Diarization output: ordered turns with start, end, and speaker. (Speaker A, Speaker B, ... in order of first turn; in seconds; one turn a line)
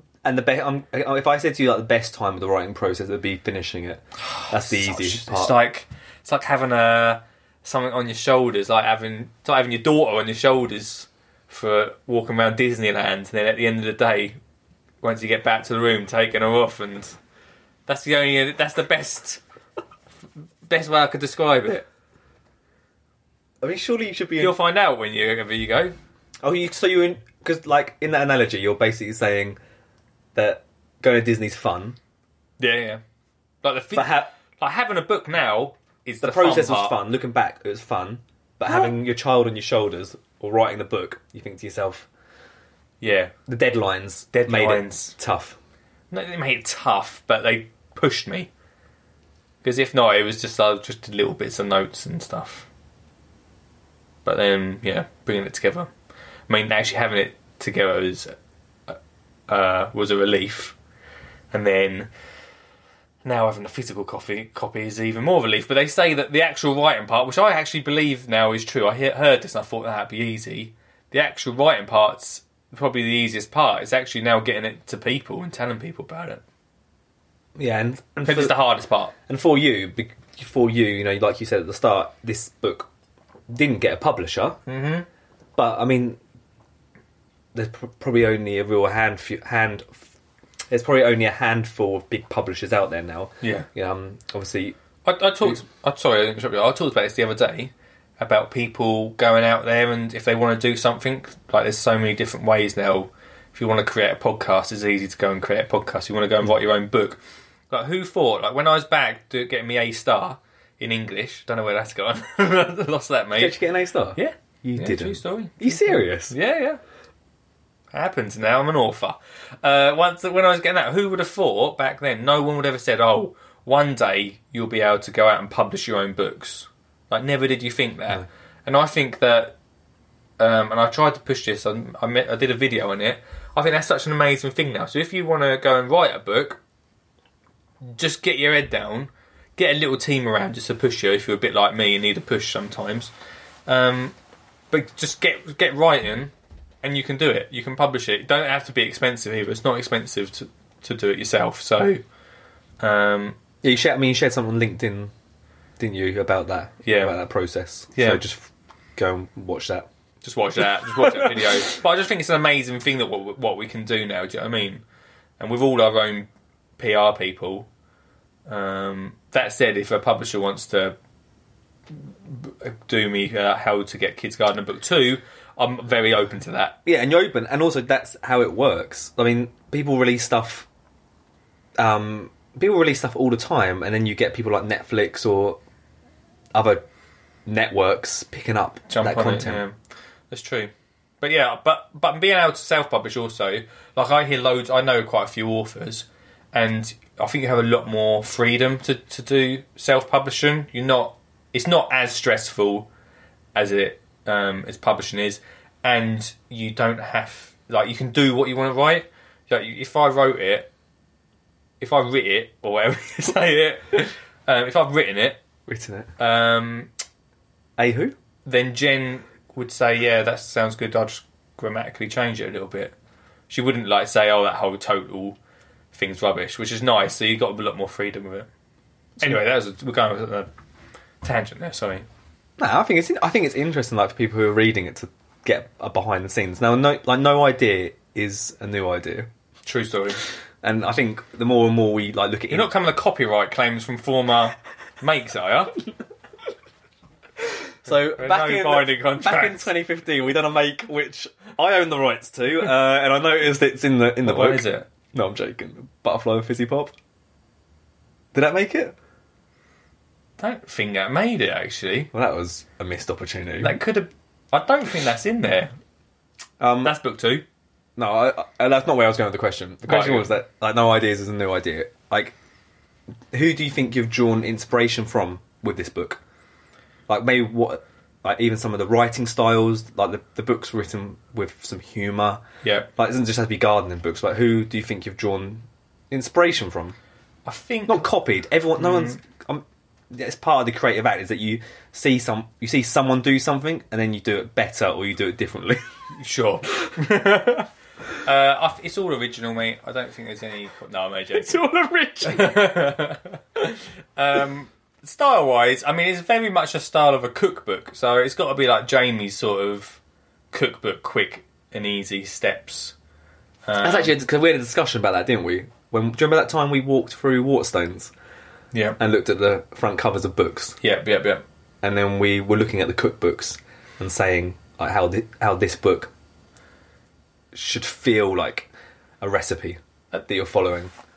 Speaker A: 0.2-5.5
Speaker B: 4.3-14.4
Speaker B: 15.0-17.2
Speaker B: 17.9-19.4
Speaker B: 20.7-21.8
Speaker A: 23.6-24.6
Speaker B: 24.4-25.9
Speaker A: 26.4-29.6
Speaker A: 30.4-32.0
Speaker B: 32.6-33.0
Speaker B: 33.6-37.0
Speaker A: 33.9-34.3
Speaker A: 36.2-42.1
Speaker B: 38.7-38.9
Speaker B: 43.0-43.3
Speaker A: 43.5-45.6
Speaker B: 44.3-45.1
Speaker B: 46.1-48.5
Speaker B: 49.6-52.7
Speaker B: 54.2-55.9
Speaker B: 56.5-58.3
Speaker B: 58.9-60.8
Speaker B: 61.5-62.1
Speaker B: 63.2-76.4
Speaker A: 77.6-78.6
Speaker B: 78.2-79.1
Speaker A: 79.3-82.9
Speaker A: 83.5-84.6
Speaker B: 84.7-85.1
Speaker A: 85.6-86.2
Speaker A: 87.5-90.1
Speaker A: 90.7-94.8
Speaker B: 93.4-93.7
Speaker B: 95.0-113.6
Speaker A: 113.4-116.3
Speaker B: 114.2-116.8
Speaker B: 117.9-129.6
Speaker B: 130.4-136.6
Speaker B: 137.8-143.1
Speaker B: 143.7-144.2
Speaker B: 144.7-152.0
Speaker B: 152.8-153.4
Speaker A: 153.6-155.1
Speaker A: 155.8-159.9
Speaker B: 156.8-157.2
Speaker B: 157.9-158.2
Speaker B: 160.2-164.8
Speaker A: 160.8-161.6
Speaker B: 165.4-167.7
Speaker B: 168.5-171.0
Speaker B: 171.9-176.8
Speaker A: 176.8-180.7
Speaker A: 181.8-185.6
Speaker A: 186.5-186.8
Speaker A: 187.5-189.6
Speaker B: 188.9-189.8
Speaker B: 190.3-202.9
Speaker B: 203.6-210.7
Speaker B: 211.8-215.4
Speaker A: 215.7-216.1
Speaker B: 216.2-216.9
Speaker A: 217.8-218.2
Speaker B: 218.4-222.9
Speaker B: 223.5-225.4
Speaker B: 225.9-228.5
Speaker B: 229.2-230.5
Speaker B: 231.2-232.1
Speaker A: 232.6-239.3
Speaker B: 239.7-240.2
Speaker A: 240.6-242.7
Speaker B: 242.5-245.8
Speaker A: 247.8-256.9
Speaker B: 247.9-249.7
Speaker B: 254.2-254.9
Speaker A: 258.3-258.9
Speaker B: 260.4-262.1
Speaker A: 262.1-263.8
Speaker B: 263.6-265.7
Speaker A: 266.6-266.9
Speaker B: 266.8-267.4
Speaker A: 268.0-272.4
Speaker B: 269.9-270.3
Speaker A: 273.3-276.2
Speaker A: 277.1-282.4
Speaker B: 282.6-282.9
Speaker A: 283.0-287.0
Speaker B: 287.5-288.1
Speaker A: 287.9-295.8
Speaker B: 288.8-289.2
Speaker B: 296.2-301.6
Speaker A: 301.3-302.7
Speaker B: 302.2-310.0
Speaker B: 310.5-312.9
Speaker B: 313.6-314.1
Speaker A: 313.8-318.1
Speaker B: 318.7-319.0
Speaker A: 319.0-320.8
Speaker B: 320.8-321.4
Speaker A: 321.8-326.1
Speaker A: 327.5-328.7
Speaker A: 329.2-330.9